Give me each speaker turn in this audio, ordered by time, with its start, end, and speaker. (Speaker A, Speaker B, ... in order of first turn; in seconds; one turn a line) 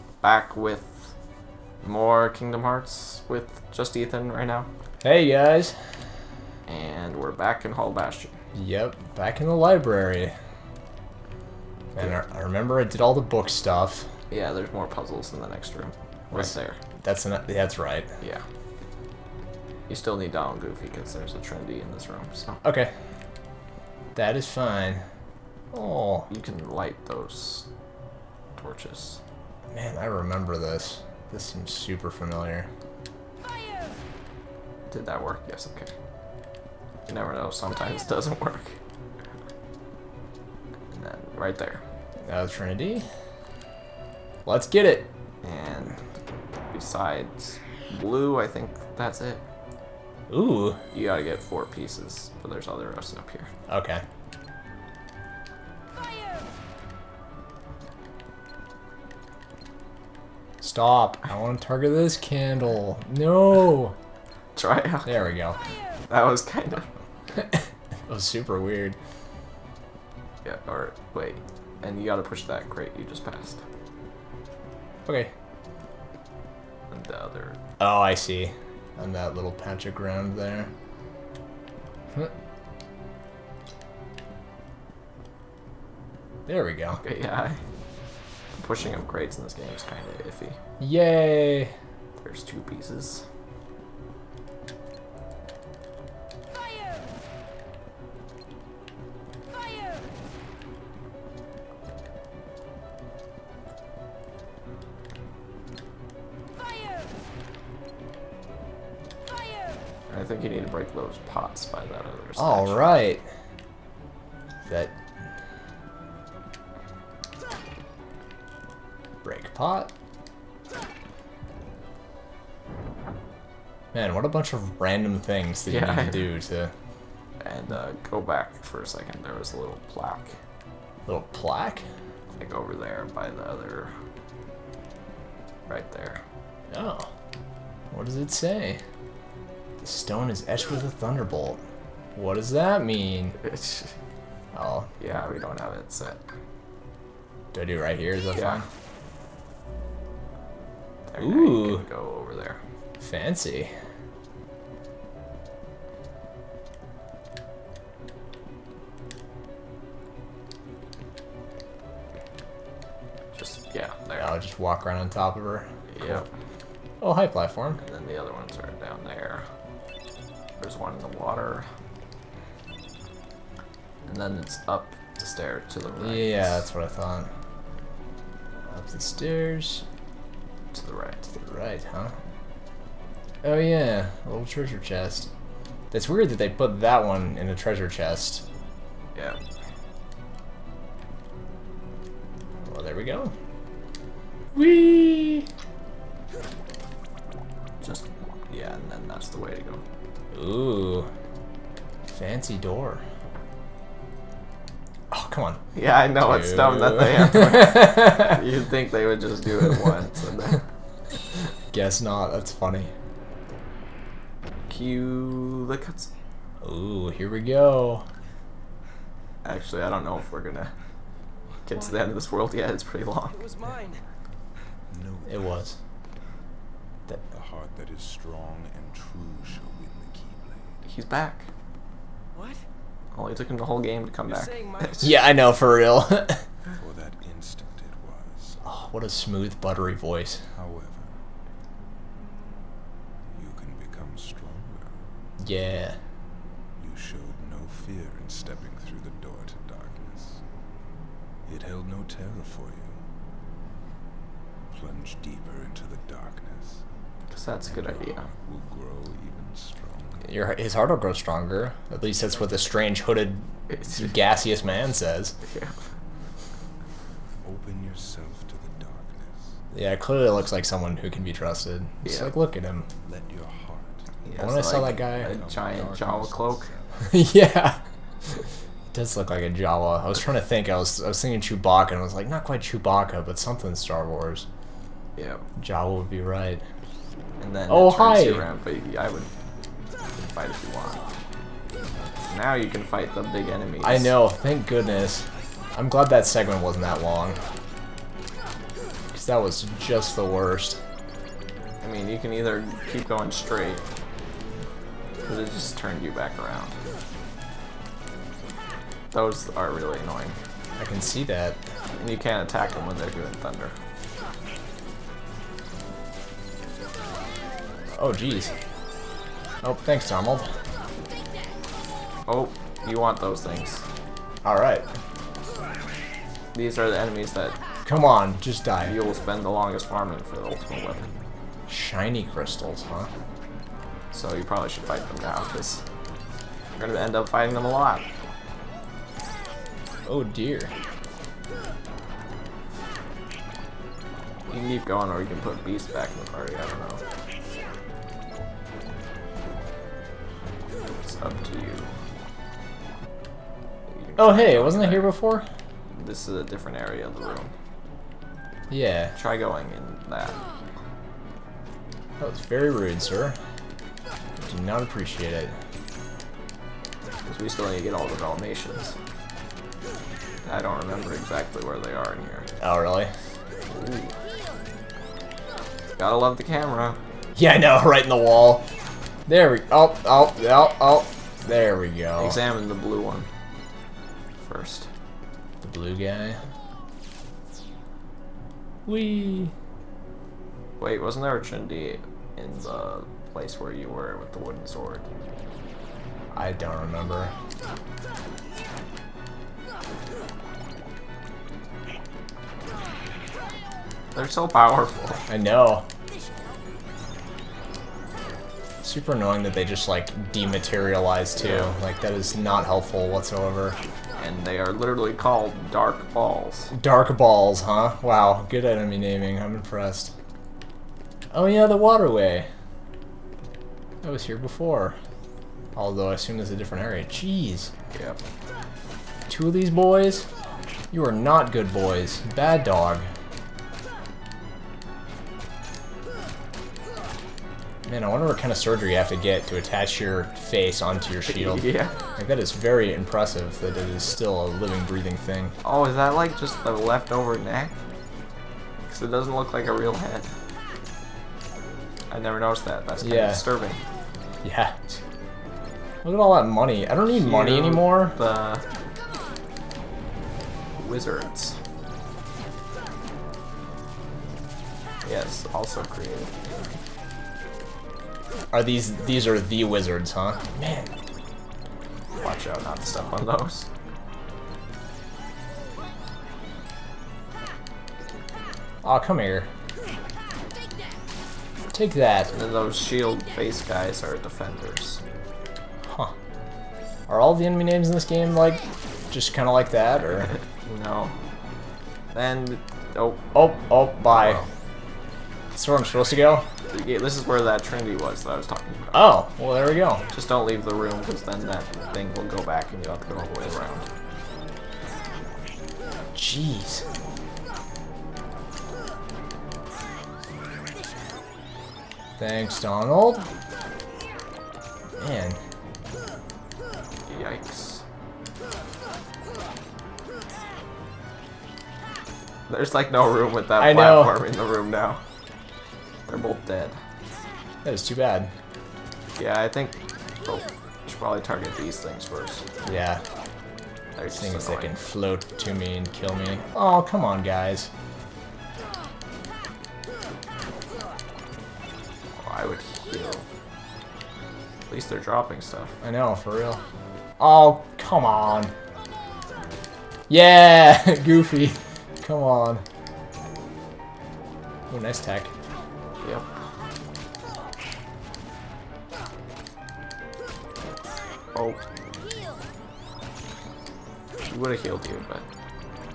Speaker A: 0.2-1.1
Speaker A: 1.8-4.7
Speaker B: 5.0-5.8
Speaker A: 6.7-8.4
Speaker B: 8.5-10.3
Speaker B: 11.9-14.1
Speaker A: 14.3-16.8
Speaker B: 16.3-18.1
Speaker A: 19.9-22.6
Speaker B: 22.6-22.9
Speaker B: 24.1-25.1
Speaker B: 25.7-26.3
Speaker A: 26.3-27.7
Speaker A: 28.6-29.2
Speaker B: 29.7-32.7
Speaker A: 34.9-35.9
Speaker A: 37.1-38.8
Speaker A: 40.9-41.8
Speaker B: 42.2-43.1
Speaker B: 44.5-45.1
Speaker A: 45.4-46.0
Speaker A: 46.7-49.4
Speaker B: 50.3-50.8
Speaker A: 50.9-53.5
Speaker B: 53.7-54.0
Speaker B: 60.6-64.0
Speaker A: 64.5-65.2
Speaker B: 65.0-65.6
Speaker A: 66.1-66.9
Speaker B: 67.3-69.0
Speaker A: 70.4-73.6
Speaker B: 75.1-75.3
Speaker A: 76.9-77.6
Speaker B: 77.8-80.7
Speaker B: 86.5-87.0
Speaker A: 87.0-87.6
Speaker A: 88.5-90.6
Speaker B: 90.8-91.7
Speaker A: 92.2-93.2
Speaker A: 110.1-112.9
Speaker B: 112.4-113.3
Speaker B: 114.7-115.0
Speaker B: 119.2-119.9
Speaker B: 123.9-126.7
Speaker A: 125.7-126.3
Speaker A: 127.4-130.3
Speaker B: 131.1-131.9
Speaker A: 132.3-133.9
Speaker A: 135.7-136.2
Speaker B: 136.7-137.1
Speaker B: 137.9-138.8
Speaker B: 139.8-141.6
Speaker B: 142.2-143.4
Speaker A: 143.4-143.9
Speaker B: 144.5-144.9
Speaker A: 145.0-146.2
Speaker B: 147.5-148.7
Speaker A: 148.3-148.6
Speaker A: 151.1-152.6
Speaker B: 151.2-151.8
Speaker B: 153.0-153.7
Speaker A: 163.3-164.3
Speaker B: 164.2-166.2
Speaker A: 165.9-166.3
Speaker B: 167.0-167.8
Speaker A: 167.8-169.5
Speaker A: 170.6-171.7
Speaker A: 174.1-176.7
Speaker B: 176.0-177.3
Speaker B: 178.7-179.8
Speaker A: 180.7-181.4
Speaker B: 181.4-182.2
Speaker B: 183.4-185.3
Speaker B: 185.9-188.4
Speaker A: 189.2-189.4
Speaker B: 192.7-193.3
Speaker B: 194.6-195.5
Speaker A: 197.8-199.8
Speaker B: 200.3-201.1
Speaker B: 202.1-203.0
Speaker B: 205.1-205.7
Speaker A: 205.8-210.6
Speaker B: 206.2-208.4
Speaker B: 211.7-212.9
Speaker A: 214.7-216.1
Speaker B: 216.6-218.1
Speaker A: 219.4-220.7
Speaker C: 221.7-222.1
Speaker A: 221.7-223.4
Speaker C: 223.2-224.0
Speaker D: 224.9-225.6
Speaker B: 225.3-225.8
Speaker D: 227.3-230.8
Speaker A: 230.8-231.5
Speaker C: 232.3-232.6
Speaker A: 233.1-235.2
Speaker C: 234.3-235.2
Speaker B: 235.0-236.4
Speaker D: 236.7-238.6
Speaker B: 238.6-240.4
Speaker D: 240.5-241.2
Speaker D: 243.3-245.0
Speaker B: 245.4-246.0
Speaker D: 246.8-250.4
Speaker D: 251.5-253.0
Speaker D: 254.7-256.8
Speaker A: 257.3-258.3
Speaker D: 257.7-260.3
Speaker B: 260.2-265.4
Speaker A: 263.7-264.3
Speaker A: 265.4-265.8
Speaker D: 267.4-269.6
Speaker B: 269.7-272.9
Speaker A: 272.0-272.4
Speaker D: 273.0-277.3
Speaker A: 274.2-276.7
Speaker B: 274.4-275.3
Speaker B: 277.1-277.8
Speaker B: 278.9-284.5
Speaker A: 285.2-285.4
Speaker B: 285.6-286.7
Speaker A: 287.4-289.3
Speaker B: 287.7-288.5
Speaker A: 290.1-291.1
Speaker A: 292.3-294.2
Speaker B: 293.8-297.4
Speaker B: 299.1-300.8
Speaker A: 301.8-303.9
Speaker A: 305.3-306.8
Speaker A: 309.1-310.4
Speaker B: 310.8-311.6
Speaker A: 312.0-313.8
Speaker B: 317.9-318.6
Speaker B: 319.6-320.6
Speaker A: 322.3-323.9
Speaker B: 324.4-324.9
Speaker A: 326.5-327.6
Speaker B: 327.9-329.0
Speaker A: 328.8-331.1
Speaker B: 331.7-333.1
Speaker A: 334.1-335.8
Speaker A: 336.8-338.1
Speaker B: 340.1-340.7
Speaker A: 344.5-347.0
Speaker A: 350.9-351.9
Speaker A: 353.9-355.1
Speaker B: 354.2-355.5
Speaker A: 355.9-357.5
Speaker B: 358.7-359.1
Speaker A: 359.2-360.4
Speaker B: 362.2-363.4
Speaker B: 364.4-365.6
Speaker A: 367.3-369.0
Speaker A: 370.4-372.5
Speaker B: 372.6-373.1
Speaker A: 373.7-374.1
Speaker A: 376.0-377.0
Speaker B: 377.4-378.7
Speaker B: 379.3-382.4
Speaker A: 382.2-383.3
Speaker A: 384.4-384.9
Speaker B: 385.6-386.4
Speaker B: 388.9-389.5
Speaker A: 390.8-395.1
Speaker B: 396.3-397.3
Speaker A: 404.1-405.2
Speaker B: 405.3-405.9
Speaker B: 408.8-413.8
Speaker A: 411.4-411.8
Speaker A: 414.2-416.7
Speaker B: 416.7-420.1
Speaker B: 421.3-422.5
Speaker B: 424.0-425.0
Speaker B: 425.8-427.7
Speaker A: 427.9-428.2
Speaker B: 429.3-430.3
Speaker B: 430.9-433.1
Speaker B: 437.9-441.6
Speaker A: 441.3-442.0
Speaker B: 442.2-445.6
Speaker A: 445.6-447.8
Speaker A: 448.9-450.3
Speaker A: 452.1-453.8
Speaker B: 453.0-453.4
Speaker B: 454.4-454.8
Speaker B: 456.0-458.1
Speaker A: 457.1-458.6
Speaker A: 460.8-461.6
Speaker A: 465.1-466.8
Speaker B: 468.5-470.9
Speaker A: 472.2-473.7
Speaker B: 478.8-479.5
Speaker B: 481.7-482.3
Speaker A: 482.3-485.0
Speaker B: 485.8-486.1
Speaker B: 487.1-490.3
Speaker A: 490.0-491.1
Speaker A: 492.1-493.3
Speaker B: 493.3-494.4
Speaker A: 494.1-494.5
Speaker B: 495.5-496.5
Speaker A: 496.7-499.1
Speaker B: 498.9-500.1
Speaker A: 500.1-503.9
Speaker B: 506.1-506.9
Speaker B: 512.2-513.3
Speaker B: 515.0-515.4
Speaker A: 517.1-517.8
Speaker A: 522.5-525.0
Speaker B: 523.6-524.2
Speaker A: 526.1-526.8
Speaker B: 527.6-528.3
Speaker A: 529.2-532.5
Speaker B: 532.6-533.0
Speaker A: 534.0-534.8
Speaker B: 534.1-537.7
Speaker A: 542.2-543.3
Speaker A: 544.7-545.7
Speaker B: 545.8-546.6
Speaker B: 547.2-548.5
Speaker B: 550.1-552.6
Speaker B: 554.7-555.3
Speaker A: 556.0-556.3
Speaker A: 561.3-561.6
Speaker A: 564.3-565.2